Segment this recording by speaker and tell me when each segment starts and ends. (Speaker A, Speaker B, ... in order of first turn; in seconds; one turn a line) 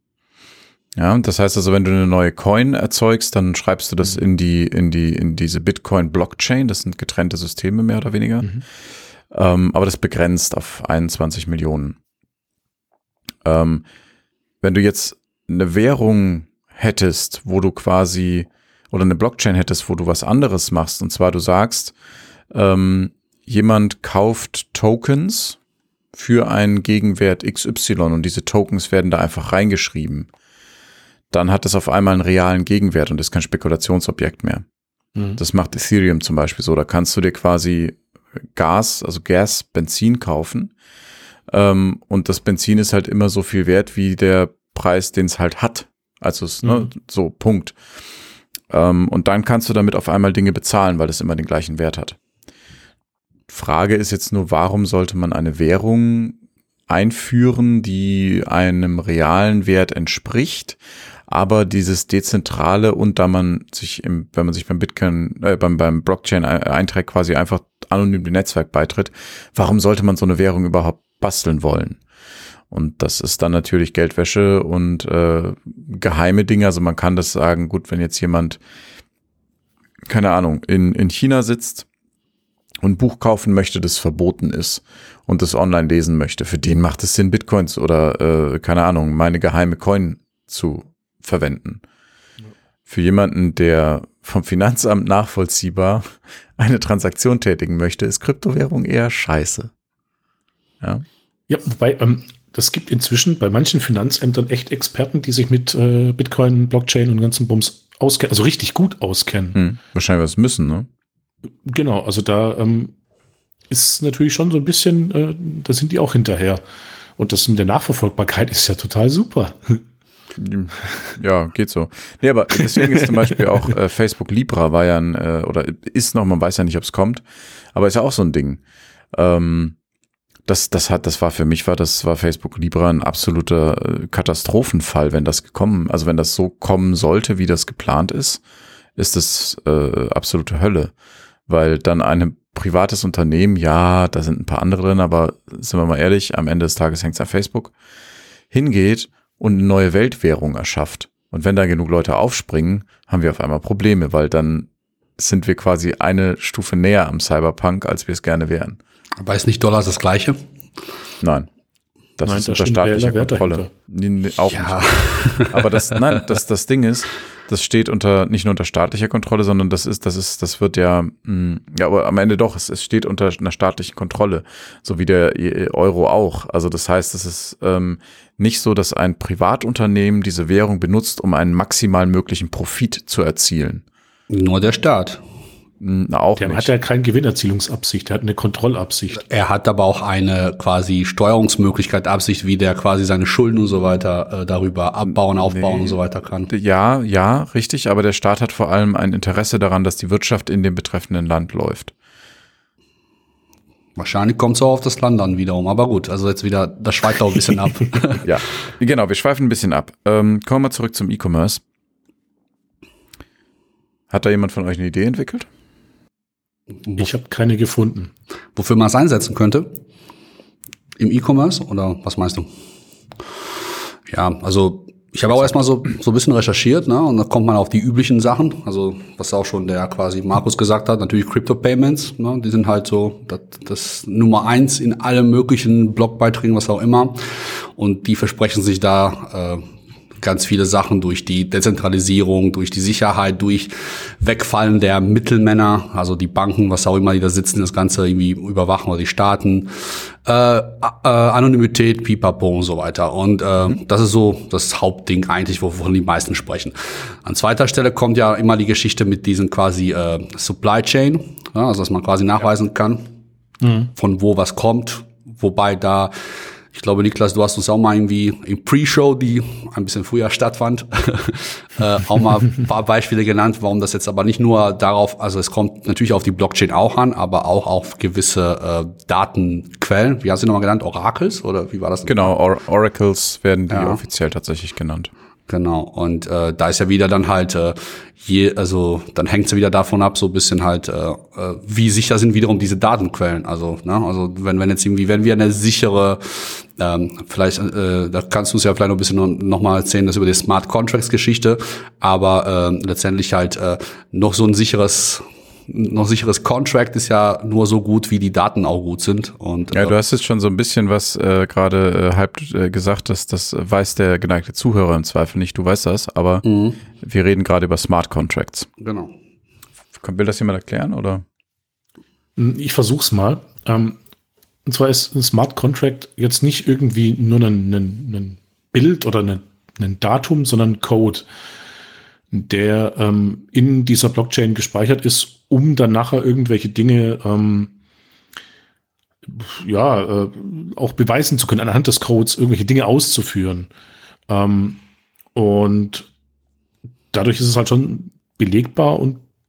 Speaker A: 0.9-8.5
Speaker A: 9.3-12.0
Speaker A: 13.4-13.8
Speaker A: 14.6-21.9
Speaker A: 22.5-25.6
Speaker A: 26.1-30.3
Speaker A: 31.3-34.6
Speaker A: 35.4-38.0
Speaker A: 38.5-40.7
Speaker A: 41.5-47.8
Speaker A: 48.7-52.2
Speaker A: 53.5-72.0
Speaker A: 72.7-78.6
Speaker A: 80.1-81.9
Speaker A: 82.8-91.8
Speaker A: 92.8-99.7
Speaker B: 101.5-109.6
Speaker A: 109.5-110.9
Speaker B: 111.6-112.9
Speaker B: 113.7-116.6
Speaker B: 117.2-119.8
Speaker A: 120.4-128.6
Speaker A: 129.1-129.7
Speaker A: 130.5-138.4
Speaker A: 139.0-140.9
Speaker A: 141.5-147.7
Speaker A: 148.5-158.8
Speaker C: 159.2-160.4
Speaker A: 161.2-161.5
Speaker A: 162.2-164.9
Speaker B: 162.2-163.7
Speaker C: 164.5-165.9
Speaker A: 165.5-183.8
Speaker C: 184.3-185.2
Speaker A: 185.8-186.7
Speaker B: 186.4-189.2
Speaker C: 189.1-196.5
Speaker A: 195.1-196.0
Speaker A: 196.5-201.9
Speaker C: 204.0-208.3
Speaker A: 208.2-211.6
Speaker A: 214.1-215.5
Speaker B: 217.0-218.1
Speaker C: 218.6-219.7
Speaker C: 221.0-222.5
Speaker C: 224.1-239.7
Speaker C: 240.2-263.1
Speaker B: 263.6-263.9
Speaker C: 263.9-266.1
Speaker C: 266.7-282.3
Speaker A: 282.1-285.1
Speaker C: 283.7-284.0
Speaker C: 285.5-309.9
Speaker A: 309.7-316.4
Speaker C: 316.4-316.8
Speaker A: 317.0-318.7
Speaker C: 318.8-319.1
Speaker A: 320.0-321.2
Speaker B: 322.4-324.0
Speaker B: 324.6-331.3
Speaker B: 332.3-337.7
Speaker B: 339.2-343.7
Speaker B: 344.3-344.8
Speaker B: 345.3-346.1
Speaker B: 347.1-349.2